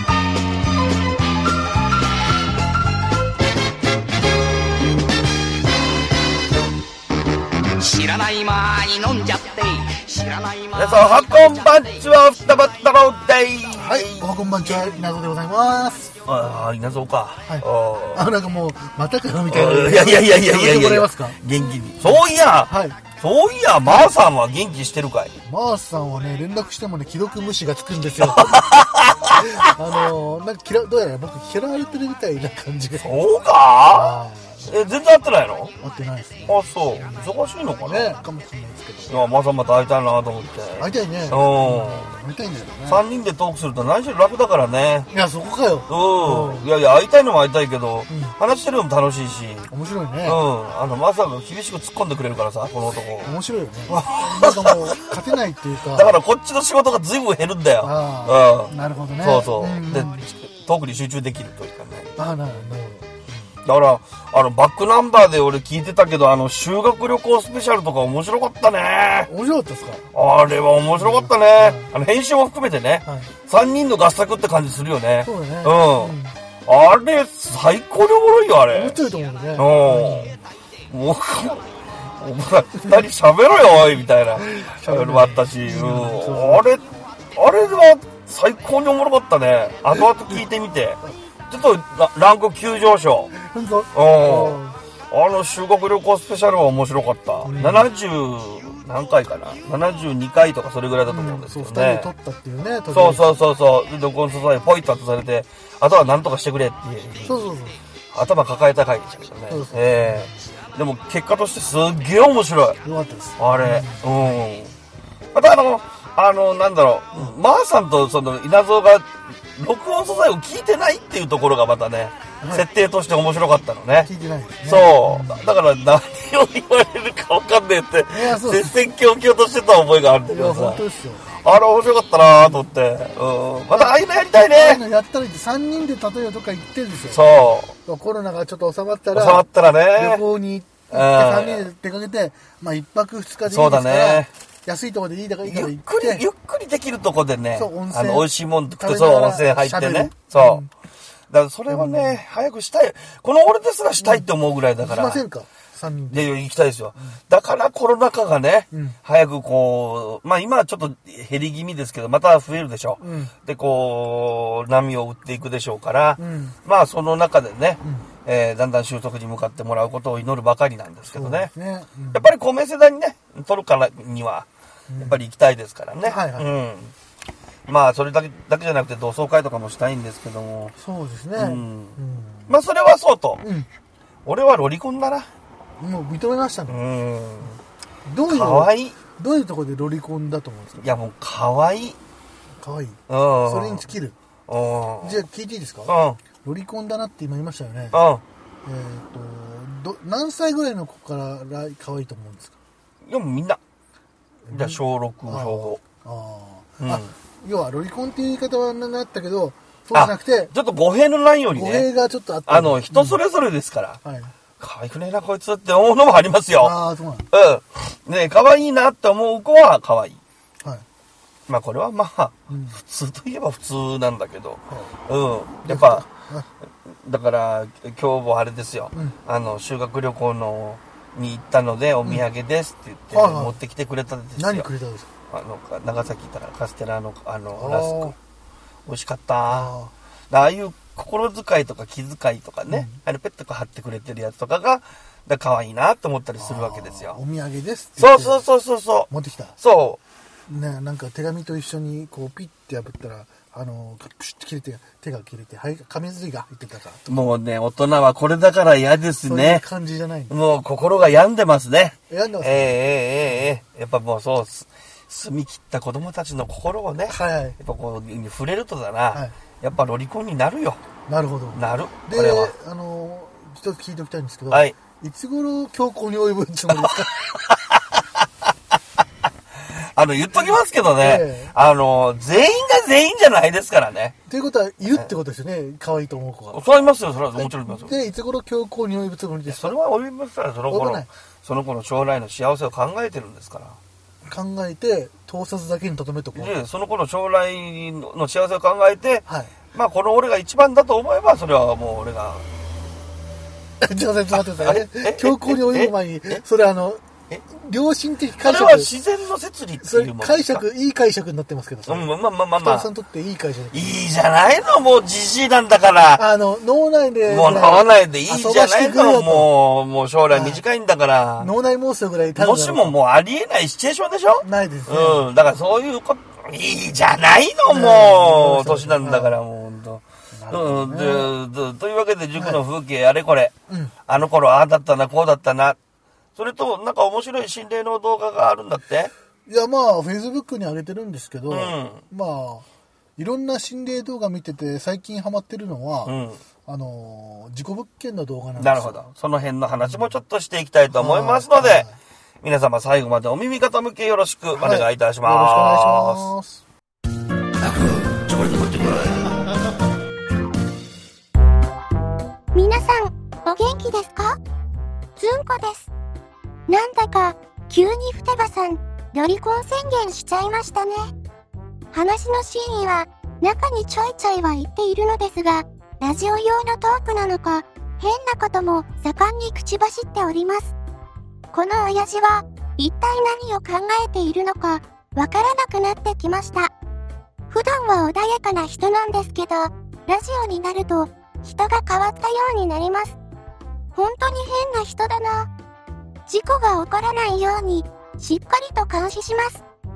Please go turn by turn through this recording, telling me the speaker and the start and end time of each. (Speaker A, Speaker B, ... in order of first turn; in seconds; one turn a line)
Speaker A: 7.8-11.9
Speaker B: 10.8-14.9
Speaker C: 13.8-16.1
Speaker B: 16.2-18.3
Speaker C: 17.5-21.4
Speaker B: 19.5-25.3
Speaker C: 22.1-23.0
Speaker C: 25.4-28.6
Speaker B: 28.3-29.6
Speaker C: 29.4-33.3
Speaker B: 33.0-35.7
Speaker C: 33.9-34.7
Speaker C: 35.8-39.3
Speaker B: 36.5-38.2
Speaker B: 39.1-42.1
Speaker C: 40.8-43.0
Speaker B: 42.9-45.1
Speaker C: 45.1-46.7
Speaker B: 45.9-49.7
Speaker C: 48.1-48.4
Speaker C: 49.7-50.4
Speaker B: 50.2-53.4
Speaker C: 53.2-56.2
Speaker B: 53.9-55.1
Speaker B: 55.9-62.2
Speaker C: 57.8-60.3
Speaker C: 62.2-63.5
Speaker B: 63.6-69.3
Speaker C: 69.3-70.1
Speaker B: 70.1-79.0
Speaker C: 71.0-71.9
Speaker C: 73.0-73.3
Speaker C: 75.2-76.3
Speaker C: 78.7-80.4
Speaker B: 79.5-80.4
Speaker B: 80.9-86.8
Speaker C: 84.4-86.7
Speaker B: 87.3-93.4
Speaker C: 93.3-94.8
Speaker B: 93.9-94.6
Speaker B: 95.1-102.1
Speaker C: 97.4-97.9
Speaker C: 101.1-103.3
Speaker B: 102.9-107.4
Speaker C: 107.2-107.8
Speaker B: 108.1-112.8
Speaker C: 109.5-110.4
Speaker C: 112.8-114.3
Speaker B: 113.4-114.8
Speaker B: 115.3-124.1
Speaker C: 122.4-122.7
Speaker C: 124.0-125.5
Speaker B: 124.7-130.8
Speaker C: 128.1-128.8
Speaker C: 130.3-131.3
Speaker B: 131.4-134.8
Speaker C: 132.2-132.6
Speaker C: 133.7-137.2
Speaker B: 137.1-137.8
Speaker C: 137.9-146.2
Speaker B: 139.1-140.2
Speaker B: 140.9-141.7
Speaker B: 143.5-144.3
Speaker B: 145.4-150.7
Speaker C: 147.5-150.7
Speaker B: 151.3-155.2
Speaker C: 151.7-152.2
Speaker C: 154.0-154.3
Speaker C: 154.8-156.3
Speaker B: 156.1-171.5
Speaker C: 158.7-159.0
Speaker C: 163.0-163.3
Speaker C: 166.2-166.6
Speaker C: 171.1-172.3
Speaker B: 172.1-176.9
Speaker C: 174.9-175.2
Speaker C: 176.1-176.5
Speaker B: 177.7-180.8
Speaker C: 180.8-182.6
Speaker B: 181.3-183.4
Speaker C: 183.4-183.7
Speaker B: 184.2-185.3
Speaker C: 185.8-186.8
Speaker B: 186.7-187.6
Speaker C: 188.1-191.0
Speaker B: 188.3-189.0
Speaker B: 190.8-192.0
Speaker C: 192.6-194.2
Speaker B: 193.1-193.9
Speaker B: 194.5-195.2
Speaker C: 195.0-198.0
Speaker B: 195.9-196.2
Speaker B: 197.9-198.2
Speaker C: 198.7-202.6
Speaker B: 203.1-203.6
Speaker C: 204.5-210.5
Speaker B: 204.5-205.8
Speaker B: 206.8-207.1
Speaker B: 209.9-211.9
Speaker C: 211.5-213.2
Speaker B: 212.5-214.0
Speaker C: 214.0-214.3
Speaker B: 214.6-216.8
Speaker C: 216.6-217.3
Speaker B: 217.3-220.2
Speaker C: 220.6-220.9
Speaker B: 221.5-226.1
Speaker C: 222.5-222.8
Speaker C: 225.7-226.5
Speaker B: 226.9-234.7
Speaker C: 233.1-233.6
Speaker C: 234.4-235.1
Speaker B: 235.3-238.2
Speaker C: 237.5-238.2
Speaker B: 238.9-239.7
Speaker C: 239.5-239.9
Speaker B: 240.3-247.2
Speaker C: 242.7-243.0
Speaker C: 246.4-248.4
Speaker B: 248.0-250.0
Speaker C: 249.1-249.6
Speaker C: 250.5-257.1
Speaker B: 257.1-259.6
Speaker C: 259.2-260.4
Speaker B: 260.3-270.8
Speaker C: 262.1-263.5
Speaker C: 267.1-267.6
Speaker C: 271.1-277.1
Speaker B: 271.5-272.5
Speaker B: 274.5-274.8
Speaker B: 276.7-278.3
Speaker B: 279.7-284.2
Speaker C: 281.0-281.5
Speaker C: 284.3-286.6
Speaker B: 286.5-288.0
Speaker C: 287.4-289.8
Speaker B: 289.5-293.8
Speaker C: 290.7-291.1
Speaker C: 294.2-296.6
Speaker B: 296.4-302.4
Speaker C: 299.3-299.5
Speaker C: 303.8-308.9
Speaker B: 304.6-306.4
Speaker B: 308.4-310.6
Speaker C: 309.8-314.0
Speaker B: 311.9-312.9
Speaker B: 313.7-316.3
Speaker C: 316.2-319.5
Speaker B: 317.3-321.5
Speaker C: 320.3-320.6
Speaker C: 321.4-323.0
Speaker B: 322.4-333.5
Speaker C: 324.4-325.3
Speaker C: 327.7-329.4
Speaker C: 330.3-331.3
Speaker C: 332.4-332.6
Speaker C: 333.7-333.9
Speaker B: 334.1-335.8
Speaker B: 336.4-339.1
Speaker C: 339.5-342.7
Speaker B: 341.5-342.0
Speaker C: 343.2-349.0
Speaker B: 346.1-346.4
Speaker B: 348.6-351.9
Speaker C: 350.9-352.0
Speaker B: 352.4-356.3
Speaker C: 354.5-356.6
Speaker B: 358.1-359.3
Speaker D: 362.6-364.4
Speaker D: 365.2-365.9
Speaker D: 366.7-371.1
Speaker D: 371.9-380.8
Speaker D: 381.5-386.7
Speaker D: 387.5-393.2
Speaker D: 394.0-395.5
Speaker D: 396.3-399.6